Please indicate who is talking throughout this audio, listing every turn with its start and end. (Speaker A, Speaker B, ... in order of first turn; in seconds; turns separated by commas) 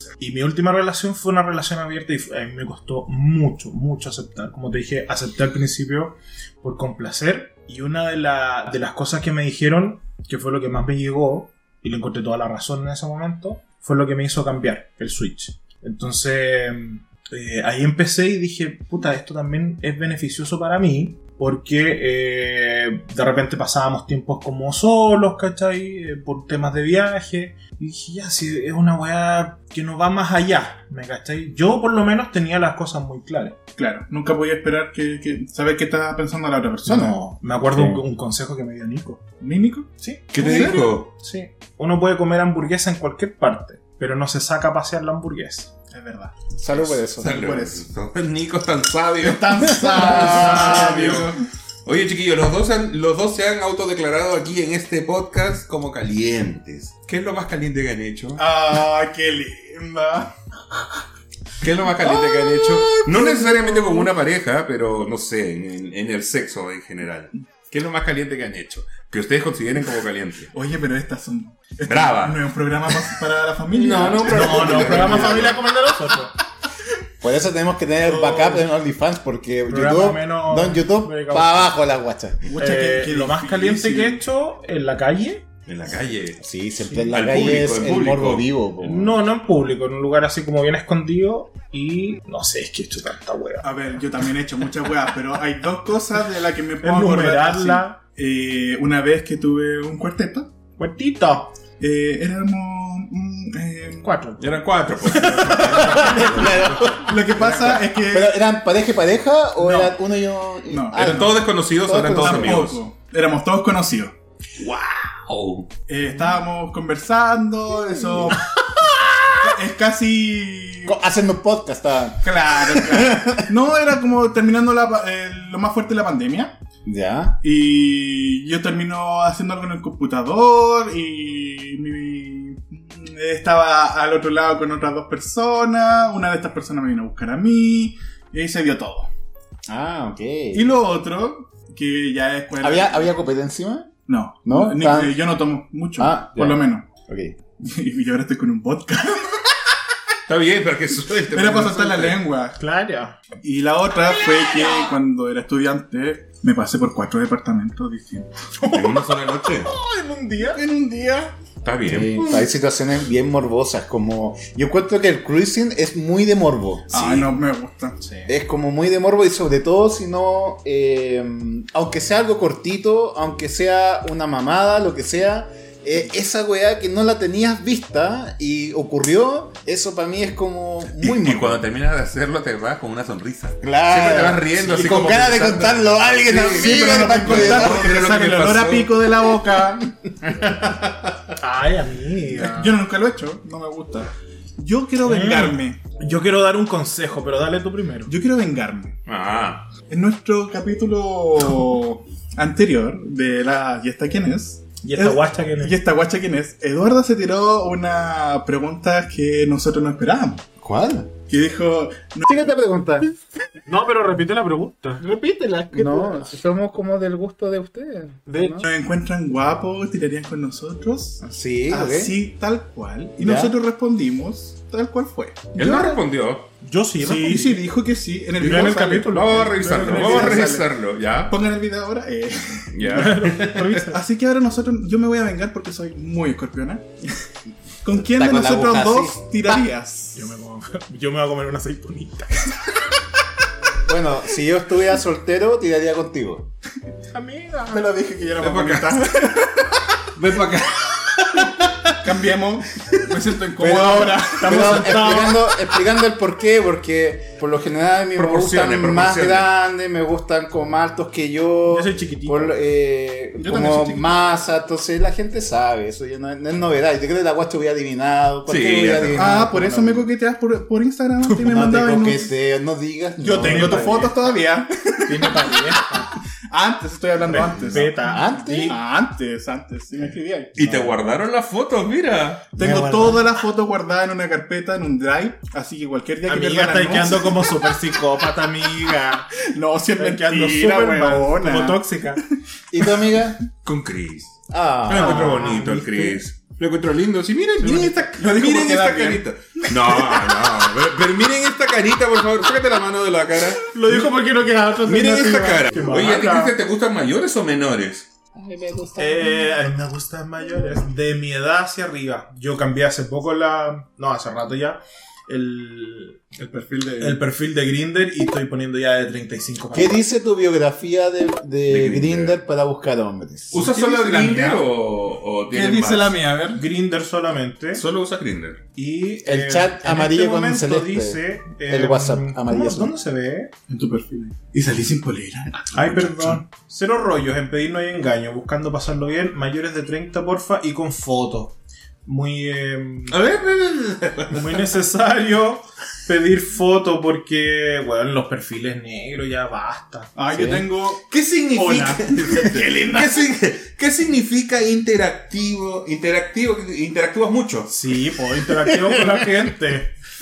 Speaker A: 0.2-33.6, Speaker B: 33.8-37.2, Speaker A: 36.9-39.2, Speaker C: 37.7-38.0, Speaker B: 39.4-40.8, Speaker A: 40.0-45.7, Speaker D: 40.3-41.1, Speaker B: 45.9-47.8, Speaker C: 46.5-47.6, Speaker D: 47.1-58.4, Speaker B: 49.2-51.4, Speaker C: 50.0-50.6, Speaker A: 50.1-51.1, Speaker B: 58.4-60.3, Speaker D: 61.6-70.5, Speaker B: 62.0-64.1, Speaker B: 70.5-75.5, Speaker D: 71.8-73.1, Speaker D: 73.7-75.6, Speaker A: 74.3-76.3, Speaker C: 74.7-75.3, Speaker C: 77.2-82.4, Speaker A: 78.0-78.7, Speaker A: 79.7-81.8, Speaker B: 82.4-84.2, Speaker A: 82.6-85.4, Speaker D: 85.7-86.4, Speaker C: 86.4-89.2, Speaker D: 87.1-88.5, Speaker A: 88.8-93.7, Speaker B: 93.6-100.5, Speaker A: 96.8-98.0, Speaker A: 100.8-101.5, Speaker B: 101.8-104.1, Speaker A: 104.0-106.6, Speaker D: 104.4-107.0, Speaker B: 105.0-108.3, Speaker C: 105.7-112.7, Speaker B: 109.6-109.9, Speaker B: 110.7-111.5, Speaker D: 110.9-112.8, Speaker B: 112.1-114.1, Speaker D: 114.6-115.7, Speaker B: 115.9-118.5, Speaker C: 118.0-118.3, Speaker B: 119.2-121.0, Speaker C: 120.8-123.5, Speaker B: 122.2-126.6, Speaker C: 126.8-127.4, Speaker B: 127.4-139.1, Speaker C: 139.7-140.7, Speaker B: 140.5-143.1, Speaker C: 142.6-145.2, Speaker B: 144.1-146.8, Speaker C: 146.0-147.3, Speaker B: 147.6-149.5, Speaker D: 150.3-152.2, Speaker B: 151.3-152.6, Speaker A: 152.6-153.2, Speaker B: 153.4-158.3, Speaker A: 158.6-160.6, Speaker D: 158.7-159.7, Speaker B: 160.4-161.3, Speaker D: 161.6-162.3, Speaker C: 161.9-166.9, Speaker B: 166.9-168.0, Speaker D: 166.9-167.3, Speaker A: 168.0-168.3, Speaker C: 168.2-181.7, Speaker D: 180.9-189.1, Speaker C: 183.6-187.9, Speaker B: 186.5-189.9, Speaker A: 191.4-192.8, Speaker B: 192.3-195.8, Speaker A: 195.0-198.1, Speaker B: 198.1-198.9, Speaker D: 199.1-199.7, Speaker B: 199.9-210.4, Speaker A: 204.8-205.8, Speaker C: 210.6-211.1, Speaker B: 211.3-212.4, Speaker C: 212.2-213.1, Speaker A: 213.7-216.3, Speaker C: 215.7-218.7, Speaker A: 218.2-218.6, Speaker B: 218.6-225.9, Speaker C: 221.2-222.1, Speaker C: 223.2-223.5, Speaker D: 225.5-226.5, Speaker A: 226.6-227.6, Speaker B: 227.0-233.2, Speaker A: 228.4-230.5, Speaker D: 228.4-231.3, Speaker C: 230.2-230.6, Speaker D: 232.7-233.8, Speaker A: 232.9-234.0, Speaker B: 233.8-237.1, Speaker B: 237.8-240.2, Speaker C: 238.0-239.6, Speaker A: 240.1-242.5, Speaker C: 243.8-246.5, Speaker A: 247.1-247.9, Speaker B: 247.7-249.8, Speaker D: 248.4-249.1, Speaker D: 250.1-252.0, Speaker B: 252.0-255.2, Speaker C: 253.6-270.1, Speaker A: 254.2-255.4, Speaker D: 258.1-259.5, Speaker A: 261.7-262.6, Speaker B: 263.4-264.1, Speaker D: 268.5-269.3, Speaker B: 269.1-272.3, Speaker C: 271.4-274.1, Speaker A: 273.2-274.3, Speaker B: 273.4-275.7, Speaker A: 275.1-276.1, Speaker B: 276.5-280.5, Speaker A: 277.3-278.8, Speaker C: 278.0-278.8, Speaker D: 280.6-282.5, Speaker A: 280.6-280.9, Speaker B: 282.5-287.6, Speaker A: 282.6-283.2, Speaker C: 282.6-283.2, Speaker A: 286.2-289.4, Speaker B: 289.5-291.9, Speaker A: 289.9-292.2, Speaker C: 292.7-293.4, Speaker D: 293.6-304.1, Speaker C: 294.5-295.5, Speaker A: 294.9-296.2, Speaker A: 297.6-298.1, Speaker B: 297.6-300.2, Speaker A: 303.7-306.6, Speaker D: 304.8-308.1, Speaker C: 308.3-309.5, Speaker A: 309.0-316.2, Speaker B: 316.4-317.2, Speaker A: 317.0-320.0, Speaker C: 319.7-323.6, Speaker D: 321.7-322.4, Speaker D: 323.5-326.2, Speaker B: 323.5-324.7, Speaker B: 325.5-326.6, Speaker A: 326.5-327.8, Speaker D: 327.7-328.6, Speaker A: 328.8-333.5, Speaker C: 329.2-332.9, Speaker B: 333.7-336.4, Speaker A: 335.7-343.2, Speaker D: 343.1-344.6, Speaker A: 344.3-350.1, Speaker B: 350.1-351.0, Speaker C: 350.3-350.7, Speaker D: 351.1-357.7, Speaker A: 351.5-353.0, Speaker A: 357.7-359.9